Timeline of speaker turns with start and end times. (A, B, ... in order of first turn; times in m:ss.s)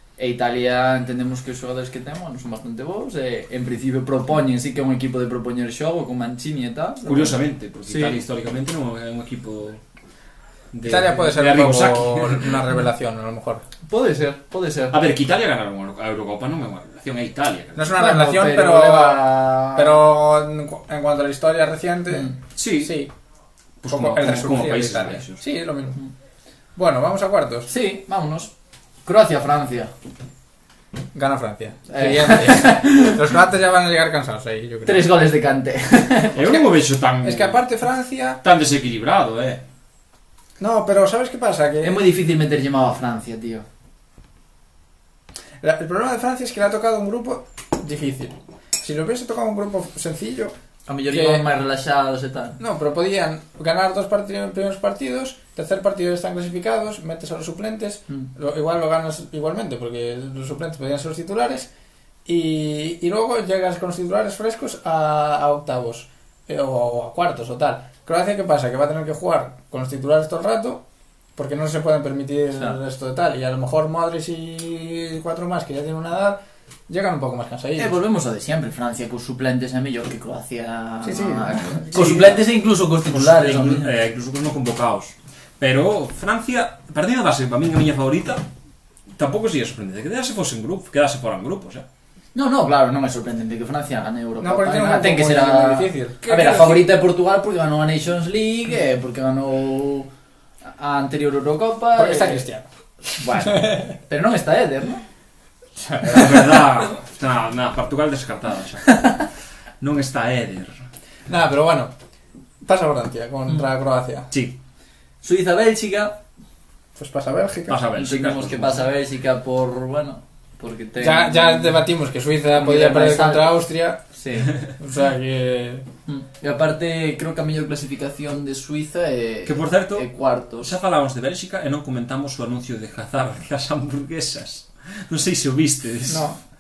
0:00.2-0:08.2 A
0:07.1-0:09.8 B
0:10.7-0:12.7 B
0:10.8-0:13.6 C
0:13.9-0:15.0 A
0:14.9-0:18.0 B
0:17.8-0:23.1 C
0:18.0-0:20.0 A
0:22.6-0:23.0 B
0:23.8-0:25.4 B
0:23.9-0:26.0 C
0:26.8-0:27.7 C
0:27.7-0:28.5 A
0:29.1-0:29.9 A
0:31.1-0:35.1 C
0:31.9-0:33.3 A
0:34.8-0:36.4 A
0:36.4-0:37.6 B
0:37.2-0:38.4 C
0:38.4-0:39.6 B
0:40.6-0:42.1 C
0:41.8-0:43.6 A
0:45.6-0:50.5 C
0:50.9-0:52.6 A
0:51.1-0:51.5 C
0:52.6-1:01.7 C
1:02.3-1:10.8 C
1:11.4-1:18.0 C
1:17.8-1:23.9 A
1:21.0-1:22.4 C
1:21.9-1:28.4 B
1:29.1-1:31.9 B
1:32.4-1:40.1 A
1:34.4-1:36.2 C
1:36.2-1:36.9 B
1:40.7-1:42.4 A
1:42.0-1:42.7 C
1:43.2-1:45.0 A
1:43.4-1:43.8 C
1:45.8-1:46.8 C
1:46.1-1:49.1 B
1:49.8-1:50.8 B
1:51.3-1:51.9 C
1:52.6-1:54.3 C
1:54.3-1:54.6 B
1:55.2-1:56.2 A
1:57.0-1:57.8 C
1:57.7-1:58.9 B
1:58.0-2:01.8 A
2:01.0-2:04.0 C
2:02.6-2:03.6 A
2:04.1-2:04.6 A
2:04.8-2:05.9 C
2:06.1-2:10.7 A
2:09.4-2:10.1 B
2:10.6-2:16.3 B
2:16.1-2:16.4 C